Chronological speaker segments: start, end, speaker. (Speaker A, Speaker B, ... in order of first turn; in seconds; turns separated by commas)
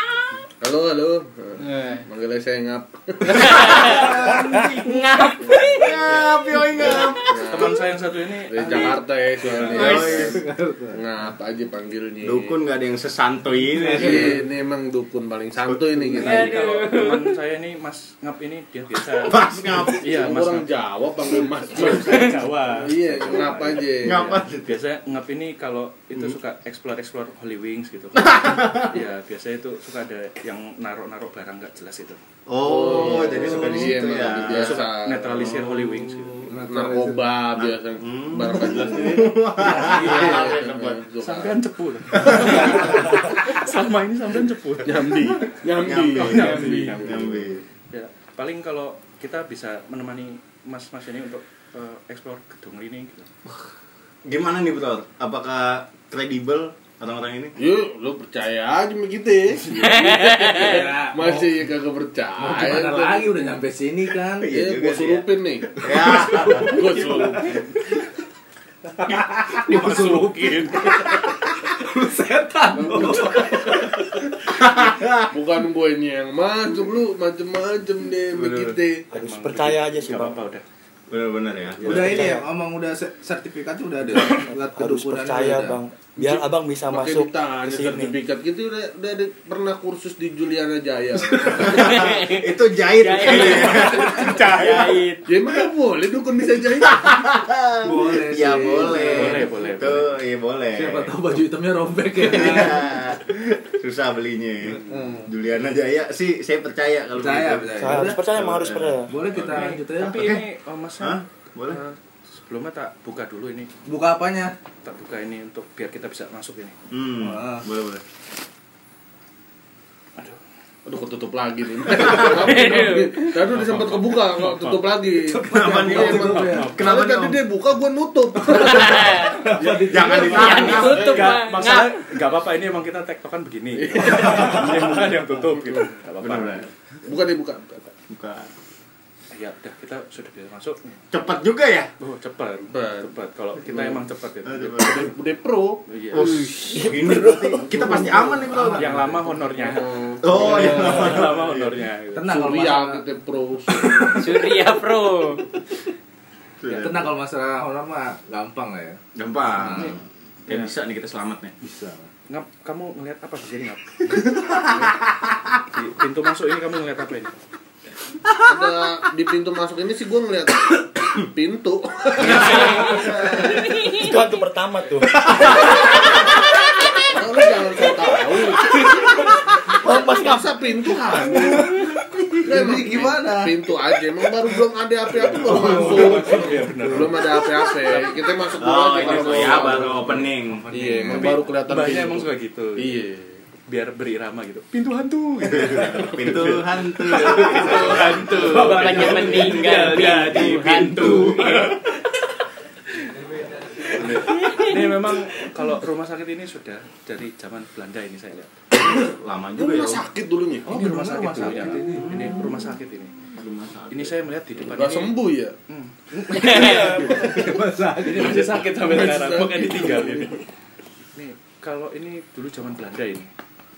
Speaker A: 0.6-4.1, Speaker B: 1.6-2.0, Speaker B: 3.3-7.3, Speaker C: 3.5-5.0, Speaker A: 5.4-6.0, Speaker C: 5.5-7.7, Speaker A: 6.7-7.8, Speaker D: 7.5-10.2, Speaker A: 8.5-10.4, Speaker C: 9.7-10.4, Speaker B: 9.7-10.2, Speaker E: 10.2-11.0, Speaker A: 10.9-12.6, Speaker C: 12.2-14.4, Speaker E: 13.7-14.4, Speaker A: 13.9-16.6, Speaker D: 16.1-20.7, Speaker B: 16.2-17.3, Speaker C: 19.1-20.1, Speaker A: 20.0-24.4, Speaker D: 21.7-23.9, Speaker C: 24.0-24.8, Speaker D: 24.6-32.2, Speaker C: 28.1-29.0, Speaker C: 32.5-35.8, Speaker A: 32.6-35.6, Speaker E: 33.1-33.9, Speaker D: 34.3-36.5, Speaker E: 36.4-37.4, Speaker A: 36.6-41.6, Speaker C: 37.6-41.0, Speaker E: 39.6-40.6, Speaker D: 41.2-47.3, Speaker C: 42.1-43.0, Speaker A: 42.4-43.1, Speaker A: 44.8-47.6, Speaker C: 45.8-47.6, Speaker D: 47.9-53.3, Speaker C: 54.2-57.5, Speaker A: 57.6-63.6, Speaker B: 59.8-60.9, Speaker E: 60.4-61.6, Speaker E: 62.4-64.5, Speaker C: 64.4-67.2, Speaker A: 64.5-67.6, Speaker E: 66.2-67.3, Speaker C: 69.0-70.9, Speaker E: 69.5-70.7, Speaker E: 71.7-74.0, Speaker A: 72.8-73.3, Speaker C: 74.4-75.3, Speaker A: 75.3-79.0, Speaker F: 79.1-80.4, Speaker D: 79.1-80.6, Speaker C: 81.1-82.2, Speaker E: 81.8-86.3, Speaker D: 81.8-82.2, Speaker F: 81.9-82.5, Speaker F: 84.1-88.1, Speaker A: 86.9-92.1, Speaker E: 91.2-91.6, Speaker C: 91.6-95.0, Speaker B: 91.6-95.3, Speaker A: 94.1-94.4, Speaker A: 95.2-97.1, Speaker C: 96.8-101.1, Speaker E: 97.8-100.1, Speaker D: 99.0-100.0, Speaker E: 100.7-103.0, Speaker C: 102.2-110.4, Speaker E: 104.7-105.3, Speaker E: 107.2-108.2, Speaker F: 107.8-109.1, Speaker E: 109.1-110.3, Speaker D: 109.4-113.7, Speaker C: 111.0-111.8, Speaker E: 113.8-114.5, Speaker D: 114.8-116.8, Speaker C: 116.9-118.0, Speaker E: 117.2-117.7, Speaker A: 120.8-131.4, Speaker B: 122.2-123.2, Speaker D: 123.5-124.7, Speaker E: 125.1-126.8, Speaker C: 125.5-127.4, Speaker D: 126.3-126.7, Speaker B: 128.5-129.4, Speaker E: 129.3-131.1, Speaker C: 129.8-131.3, Speaker B: 130.2-132.0, Speaker D: 130.4-136.7, Speaker A: 133.7-136.0, Speaker C: 136.2-136.7, Speaker A: 137.0-137.9, Speaker C: 138.1-138.5, Speaker D: 139.3-140.9, Speaker C: 141.1-141.9, Speaker D: 142.0-144.8, Speaker A: 142.7-143.1, Speaker A: 143.7-144.0, Speaker C: 144.4-145.1, Speaker A: 144.8-146.5, Speaker D: 145.9-146.3, Speaker C: 146.1-149.3, Speaker F: 146.7-148.0, Speaker A: 147.7-148.5, Speaker D: 148.7-152.4, Speaker A: 149.5-151.5, Speaker C: 150.2-151.5, Speaker E: 150.5-151.1, Speaker E: 152.1-153.0, Speaker A: 152.3-154.4, Speaker B: 154.2-155.4, Speaker C: 156.6-157.1, Speaker E: 156.7-160.0, Speaker C: 159.1-161.5, Speaker E: 161.6-162.1, Speaker D: 162.3-164.2, Speaker D: 165.7-167.3, Speaker A: 168.4-173.7, Speaker B: 172.3-173.1, Speaker B: 173.7-174.1, Speaker F: 173.7-175.8, Speaker A: 177.0-181.8, Speaker F: 179.8-180.5, Speaker A: 182.4-190.1, Speaker E: 182.5-183.5, Speaker E: 185.3-187.4, Speaker D: 185.3-188.0, Speaker C: 188.6-190.7, Speaker D: 189.0-189.9, Speaker E: 189.6-191.4, Speaker A: 190.7-193.4, Speaker D: 191.0-193.0, Speaker D: 193.7-201.9, Speaker C: 195.4-201.8, Speaker E: 197.7-200.5, Speaker A: 197.8-198.1, Speaker B: 198.3-201.4, Speaker D: 203.9-208.5, Speaker B: 204.2-204.8, Speaker C: 208.8-210.1, Speaker A: 209.6-210.7, Speaker E: 210.7-212.4, Speaker D: 210.7-213.2, Speaker C: 211.9-212.5, Speaker C: 213.3-214.1, Speaker D: 213.9-215.2, Speaker A: 214.6-215.6, Speaker D: 215.7-220.3, Speaker B: 216.3-216.9, Speaker E: 216.6-219.2, Speaker A: 217.1-217.4, Speaker A: 218.8-220.3, Speaker D: 221.1-223.3